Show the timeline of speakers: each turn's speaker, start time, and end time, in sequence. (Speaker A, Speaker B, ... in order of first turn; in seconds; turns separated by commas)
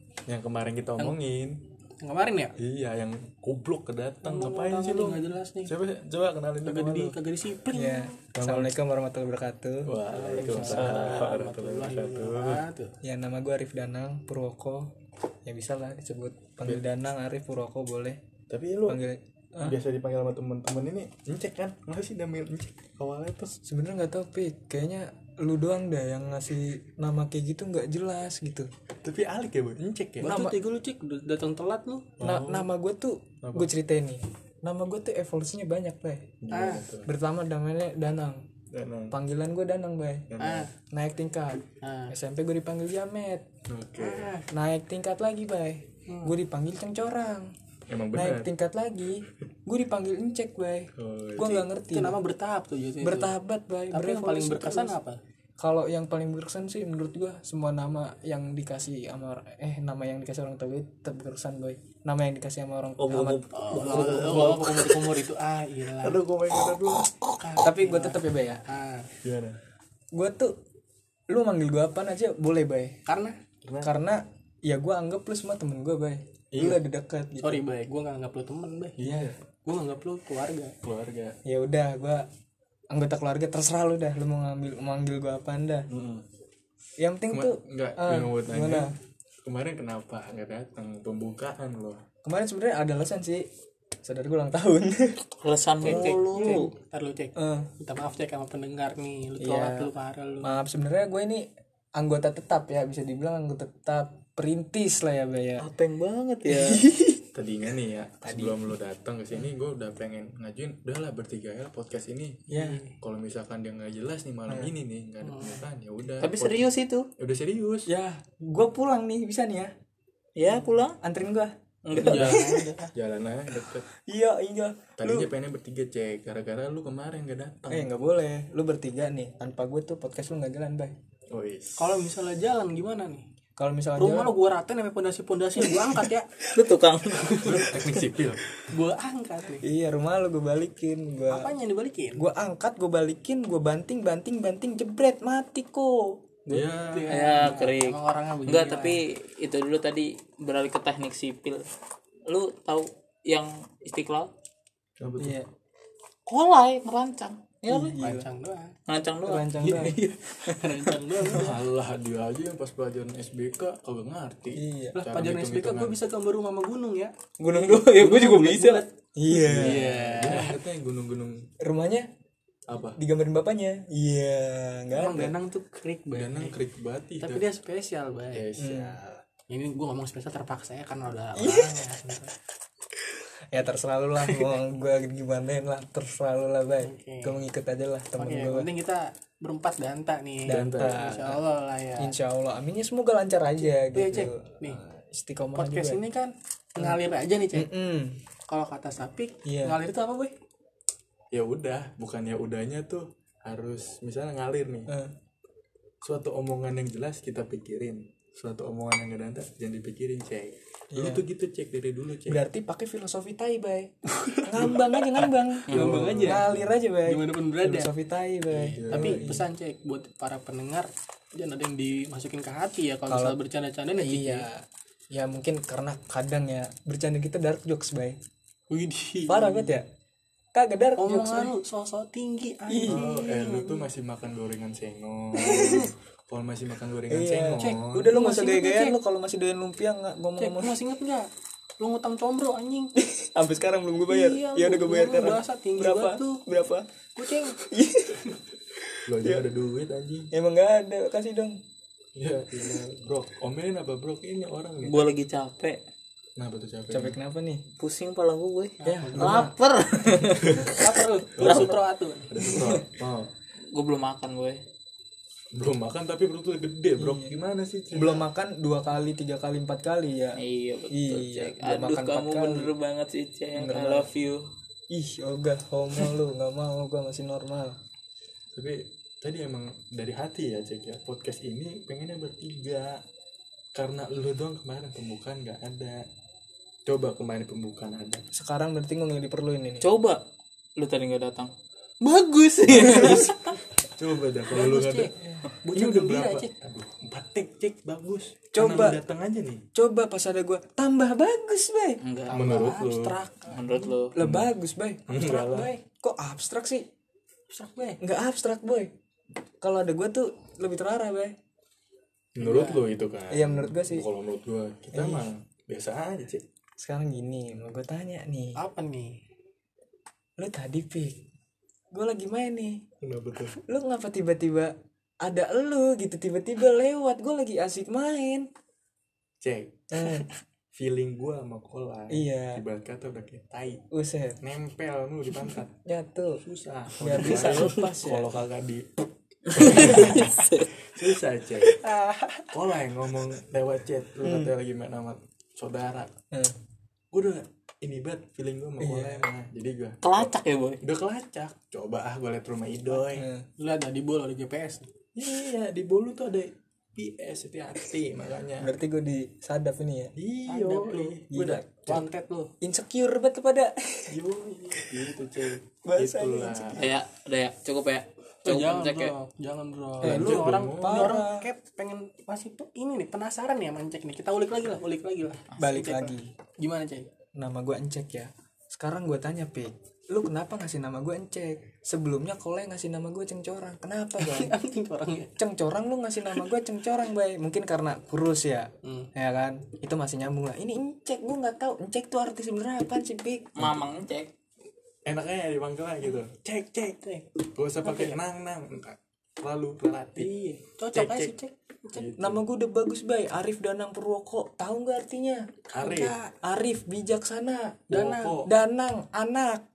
Speaker A: 0.3-1.6, Speaker B: 2.0-2.5, Speaker A: 2.6-7.2, Speaker B: 4.2-5.7, Speaker B: 6.6-8.2, Speaker C: 7.7-10.9, Speaker A: 8.3-8.7, Speaker A: 9.8-12.6, Speaker B: 10.1-12.9, Speaker D: 10.7-11.3, Speaker C: 13.0-14.9, Speaker C: 15.4-18.2, Speaker A: 18.5-19.0, Speaker C: 18.9-19.8, Speaker A: 19.6-23.6, Speaker C: 23.7-28.7, Speaker A: 29.0-30.3, Speaker C: 30.2-30.5, Speaker B: 30.2-32.1, Speaker A: 32.2-32.7, Speaker C: 32.2-36.3, Speaker A: 33.4-33.7, Speaker A: 36.4-37.1, Speaker B: 36.5-36.8, Speaker C: 37.0-38.4, Speaker A: 38.7-39.1, Speaker C: 39.1-40.3, Speaker A: 40.3-40.7, Speaker B: 40.4-40.7, Speaker C: 40.9-43.4, Speaker B: 41.8-42.1, Speaker A: 43.7-44.3, Speaker B: 44.0-44.5, Speaker C: 44.5-47.5, Speaker B: 46.1-46.3, Speaker A: 47.9-48.5, Speaker C: 48.1-52.2, Speaker A: 51.0-51.5, Speaker B: 51.4-53.4, Speaker C: 53.0-55.0, Speaker B: 53.9-55.2, Speaker C: 55.6-63.4, Speaker D: 63.0-64.6, Speaker B: 63.5-66.2, Speaker A: 63.8-65.1, Speaker A: 66.0-67.1, Speaker B: 67.4-69.1, Speaker C: 67.6-68.6, Speaker A: 69.2-69.6, Speaker C: 70.1-70.5, Speaker C: 71.3-73.0, Speaker B: 73.0-73.3, Speaker A: 73.6-73.9, Speaker C: 73.8-77.6, Speaker A: 76.5-76.8, Speaker B: 77.4-79.0, Speaker A: 79.0-79.3, Speaker C: 79.0-79.3, Speaker B: 79.6-80.7, Speaker A: 80.8-81.4, Speaker C: 81.4-82.2, Speaker C: 82.9-85.9, Speaker A: 85.9-86.2, Speaker C: 87.0-88.9, Speaker A: 87.3-88.9, Speaker A: 89.4-92.0, Speaker C: 92.2-93.5, Speaker C: 94.0-95.2, Speaker D: 95.4-96.7, Speaker C: 95.8-96.6, Speaker B: 95.8-100.5, Speaker C: 97.3-97.7, Speaker C: 99.4-99.9, Speaker C: 100.4-105.7, Speaker D: 105.6-106.8, Speaker C: 106.5-107.2, Speaker A: 107.3-112.4, Speaker C: 108.2-108.6, Speaker C: 112.5-112.8, Speaker B: 112.5-112.9, Speaker A: 113.0-117.9, Speaker B: 115.2-115.6, Speaker D: 116.2-117.1, Speaker C: 117.8-119.7, Speaker D: 120.3-121.0, Speaker C: 121.0-122.7, Speaker D: 121.8-122.3, Speaker B: 121.9-122.9, Speaker A: 122.9-123.9, Speaker C: 124.1-125.3, Speaker A: 125.0-127.9, Speaker C: 127.7-130.9, Speaker A: 131.3-132.1, Speaker B: 131.8-133.2, Speaker C: 133.6-134.3, Speaker B: 134.0-136.5, Speaker D: 136.5-137.4, Speaker B: 137.2-137.7, Speaker A: 137.4-138.4, Speaker B: 138.7-139.6, Speaker C: 139.6-141.5, Speaker B: 141.3-142.3, Speaker C: 142.2-146.7, Speaker A: 146.5-147.1, Speaker B: 146.9-149.0, Speaker D: 147.1-151.6, Speaker D: 152.3-154.3, Speaker A: 155.0-155.4, Speaker C: 155.2-155.5, Speaker D: 156.2-157.9, Speaker C: 157.7-158.3, Speaker B: 158.0-158.7, Speaker D: 158.9-160.9, Speaker C: 159.2-160.0, Speaker B: 160.4-161.5, Speaker A: 161.2-166.0, Speaker C: 164.5-165.0, Speaker B: 164.9-168.9, Speaker D: 167.4-168.8, Speaker C: 169.1-170.3, Speaker A: 169.3-171.5, Speaker B: 169.4-170.6, Speaker C: 171.6-172.1, Speaker A: 172.7-173.0, Speaker C: 172.9-175.3, Speaker B: 174.9-176.6, Speaker A: 176.1-177.5, Speaker B: 177.2-178.5, Speaker A: 178.3-179.2, Speaker C: 178.6-179.0, Speaker B: 179.5-182.3, Speaker C: 181.3-181.9, Speaker C: 183.5-188.7, Speaker B: 186.8-187.4, Speaker B: 188.2-192.1, Speaker C: 190.5-191.4, Speaker A: 190.5-191.1, Speaker C: 192.0-196.0, Speaker B: 193.6-194.8, Speaker B: 195.5-197.7, Speaker C: 197.5-198.2, Speaker B: 198.5-200.3, Speaker C: 199.4-199.8, Speaker A: 201.3-204.9, Speaker C: 204.9-205.1, Speaker A: 206.0-212.4, Speaker C: 210.9-211.2, Speaker C: 212.3-213.9, Speaker C: 214.4-219.4, Speaker D: 215.7-216.0, Speaker A: 215.7-216.7, Speaker B: 215.8-216.4, Speaker B: 217.0-217.9, Speaker B: 218.5-224.5, Speaker A: 218.7-219.3, Speaker C: 223.1-223.4, Speaker C: 223.9-228.2, Speaker B: 228.7-229.7, Speaker C: 229.3-229.9, Speaker C: 230.5-231.5, Speaker B: 231.0-233.9, Speaker C: 232.7-233.1, Speaker A: 232.9-238.1, Speaker B: 235.3-235.9, Speaker C: 235.4-235.9, Speaker C: 237.1-240.7, Speaker B: 237.6-239.0, Speaker B: 240.4-241.3, Speaker B: 241.8-242.9, Speaker C: 242.9-246.9, Speaker B: 244.1-246.4, Speaker B: 247.1-247.6, Speaker C: 247.6-248.2, Speaker A: 249.1-250.3, Speaker C: 249.2-249.4, Speaker C: 250.3-251.6, Speaker A: 252.2-255.1, Speaker D: 254.8-255.8, Speaker A: 256.4-257.2, Speaker C: 256.9-257.6, Speaker D: 257.8-260.7, Speaker B: 258.8-259.5, Speaker C: 258.9-260.6, Speaker A: 260.4-260.8, Speaker B: 260.7-262.3, Speaker A: 261.3-263.3, Speaker D: 261.4-261.7, Speaker C: 262.4-262.8, Speaker D: 263.7-264.6, Speaker A: 265.5-268.3, Speaker C: 267.0-267.3, Speaker C: 267.9-272.7, Speaker D: 270.4-274.4, Speaker C: 273.5-274.1, Speaker C: 274.9-277.8, Speaker A: 278.5-283.0, Speaker A: 283.7-286.0, Speaker A: 286.9-288.2, Speaker C: 288.3-289.9, Speaker D: 289.8-290.2, Speaker D: 290.8-293.6, Speaker C: 292.8-293.3, Speaker A: 294.0-295.1, Speaker B: 294.5-296.5, Speaker A: 295.7-299.6, Speaker C: 298.5-299.0, Speaker C: 299.7-302.0, Speaker D: 302.0-302.6, Speaker B: 302.3-304.0, Speaker A: 302.3-303.2, Speaker D: 303.4-304.1, Speaker C: 304.1-306.9, Speaker A: 304.2-304.5, Speaker A: 305.1-305.7, Speaker B: 307.5-308.0, Speaker C: 308.0-308.9, Speaker C: 309.6-311.3, Speaker A: 312.4-316.4, Speaker B: 312.4-312.9, Speaker C: 313.3-314.1, Speaker C: 314.9-315.3, Speaker C: 316.8-318.6, Speaker B: 318.6-319.2, Speaker C: 320.4-321.2, Speaker C: 321.9-322.8, Speaker A: 323.0-323.6, Speaker C: 323.7-328.5, Speaker A: 329.4-330.1, Speaker C: 329.9-330.3, Speaker A: 330.7-333.8, Speaker C: 332.1-332.6, Speaker C: 333.9-334.4, Speaker A: 334.4-335.7, Speaker C: 335.8-336.4, Speaker A: 336.4-341.8, Speaker C: 337.0-338.3, Speaker D: 339.6-340.6, Speaker B: 341.8-342.5, Speaker A: 342.5-346.1, Speaker C: 344.2-344.5, Speaker A: 347.1-353.3, Speaker C: 348.8-349.3, Speaker D: 350.0-350.8, Speaker C: 353.1-353.4, Speaker B: 353.6-354.9, Speaker A: 355.1-358.7, Speaker C: 358.6-360.1, Speaker A: 360.2-361.3, Speaker B: 360.5-362.5, Speaker C: 361.3-362.1, Speaker C: 362.6-364.2, Speaker A: 364.1-366.9, Speaker C: 365.8-366.8, Speaker D: 366.8-369.1, Speaker B: 368.4-377.1, Speaker A: 370.0-371.1, Speaker C: 370.0-371.5, Speaker C: 375.6-376.3, Speaker C: 377.4-384.5, Speaker B: 384.2-385.4, Speaker C: 385.4-393.6, Speaker B: 388.8-389.1, Speaker D: 393.6-394.3, Speaker A: 393.6-393.9, Speaker A: 395.1-400.3, Speaker B: 396.9-397.2, Speaker B: 397.8-398.2, Speaker B: 400.1-402.1, Speaker A: 400.9-401.3, Speaker A: 401.9-402.4, Speaker C: 402.2-405.4, Speaker A: 405.7-406.2, Speaker B: 405.8-406.3, Speaker C: 406.4-409.6, Speaker A: 407.9-408.5, Speaker B: 407.9-408.4